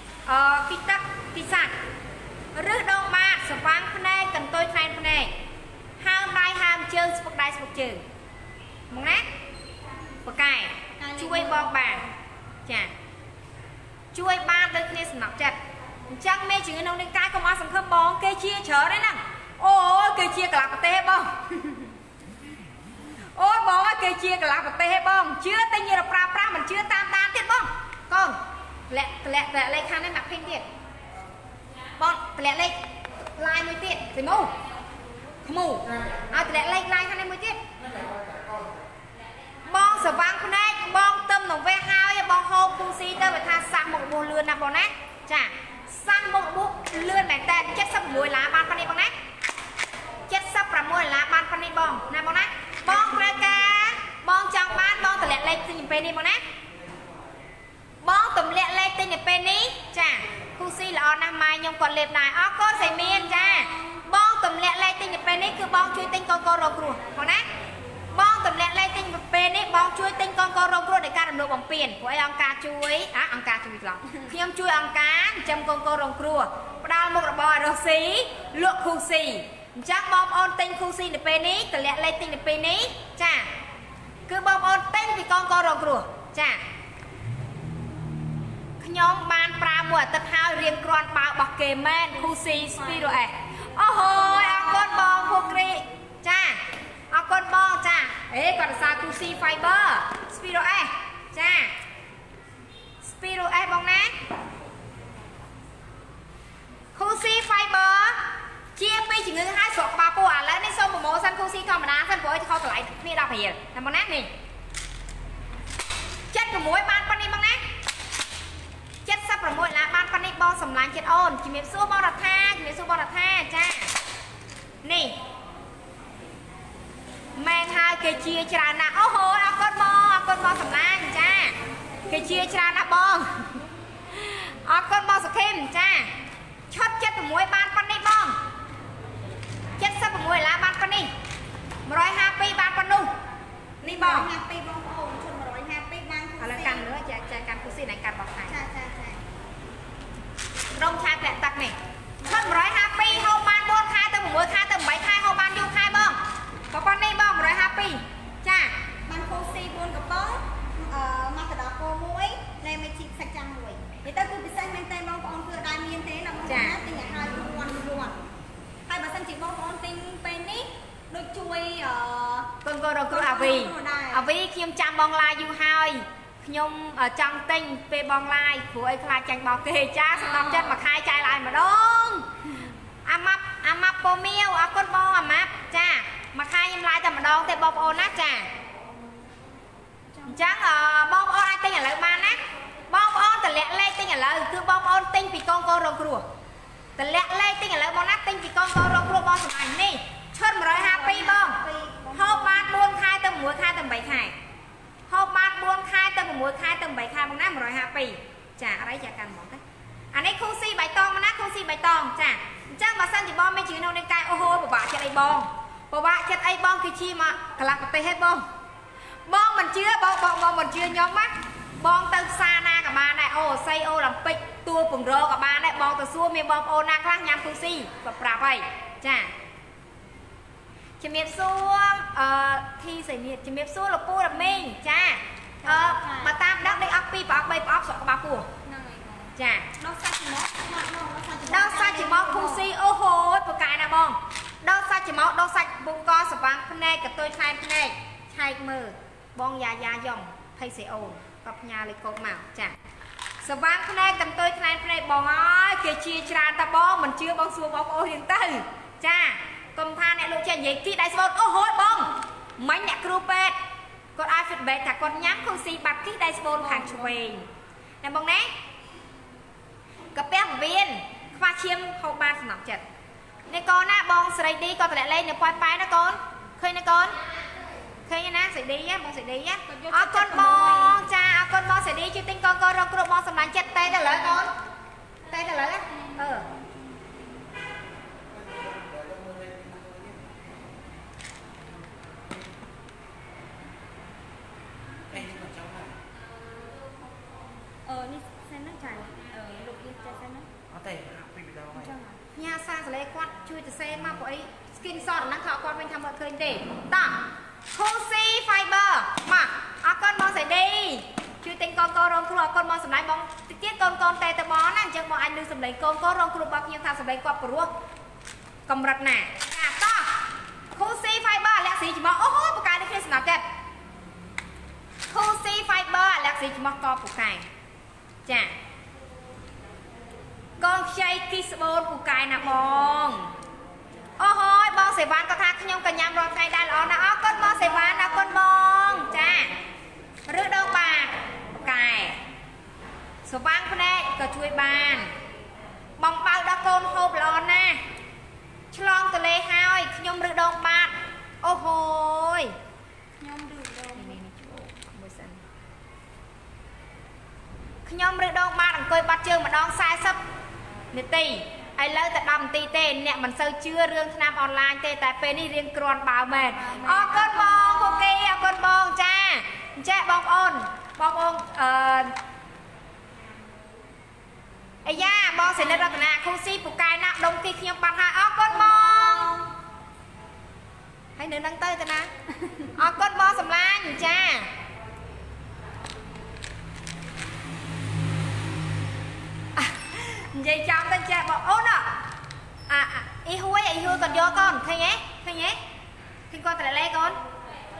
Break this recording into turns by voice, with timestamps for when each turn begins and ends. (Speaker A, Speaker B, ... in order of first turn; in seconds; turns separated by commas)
Speaker A: 0.2-1.7, Speaker A: 2.5-5.3, Speaker A: 6.0-8.0, Speaker A: 8.9-9.2, Speaker A: 10.2-12.0, Speaker B: 11.0-12.0, Speaker A: 12.7-12.9, Speaker A: 14.1-15.6, Speaker A: 16.1-21.3, Speaker A: 23.3-28.4, Speaker A: 28.9-30.6, Speaker A: 32.0-32.8, Speaker A: 33.4-34.5, Speaker A: 35.5-37.6, Speaker C: 37.8-38.9, Speaker A: 39.7-49.1, Speaker A: 50.3-56.4, Speaker A: 58.0-67.5, Speaker B: 62.7-64.0, Speaker A: 68.1-83.5, Speaker A: 84.3-86.6, Speaker A: 88.8-101.7, Speaker A: 103.0-104.1, Speaker A: 106.9-114.3, Speaker A: 116.3-117.6, Speaker A: 119.0-123.9, Speaker A: 124.8-125.2, Speaker A: 127.4-131.6, Speaker A: 132.1-133.6, Speaker A: 134.1-136.1, Speaker A: 136.7-138.4, Speaker A: 139.8-141.1, Speaker A: 141.9-143.1, Speaker A: 143.8-144.3, Speaker B: 143.8-146.8, Speaker A: 146.4-148.5, Speaker B: 148.5-149.2, Speaker A: 150.7-156.2, Speaker A: 156.7-158.7, Speaker B: 159.1-168.2, Speaker A: 166.5-166.8, Speaker B: 168.9-172.5, Speaker A: 172.6-182.3, Speaker B: 173.1-174.2, Speaker B: 180.2-180.8, Speaker A: 183.1-188.5, Speaker A: 190.3-196.2, Speaker A: 197.0-201.6, Speaker B: 200.7-202.6, Speaker A: 202.1-204.3, Speaker A: 205.1-209.6, Speaker A: 210.1-218.4, Speaker A: 219.3-229.3, Speaker A: 231.0-238.5, Speaker B: 235.6-236.3, Speaker B: 238.6-242.6, Speaker A: 239.4-239.7, Speaker A: 241.5-252.8, Speaker A: 253.4-263.5, Speaker A: 264.1-267.5, Speaker B: 266.6-267.1, Speaker A: 268.0-268.5, Speaker A: 270.1-272.8, Speaker A: 273.5-277.2, Speaker A: 278.1-284.5, Speaker B: 279.7-281.0, Speaker A: 285.3-286.4, Speaker C: 288.3-290.8, Speaker C: 291.8-292.5, Speaker C: 295.1-296.0, Speaker B: 297.9-300.5, Speaker C: 300.7-301.9, Speaker B: 301.7-302.2, Speaker A: 302.3-307.2, Speaker A: 307.7-317.7, Speaker A: 318.7-320.2, Speaker A: 320.7-323.4, Speaker A: 325.1-327.5, Speaker A: 328.2-328.5, Speaker A: 330.6-333.3, Speaker A: 334.2-339.5, Speaker A: 340.3-342.2, Speaker A: 343.2-345.1, Speaker A: 346.0-347.8, Speaker A: 348.7-352.5, Speaker B: 353.2-354.1, Speaker A: 353.9-355.4, Speaker A: 357.9-360.2, Speaker A: 360.9-372.1, Speaker B: 366.5-368.1, Speaker A: 374.8-379.4, Speaker B: 375.4-376.0, Speaker B: 378.6-379.4, Speaker A: 381.2-382.1, Speaker A: 382.7-384.5, Speaker A: 389.5-391.9, Speaker A: 392.7-395.6, Speaker A: 396.3-397.2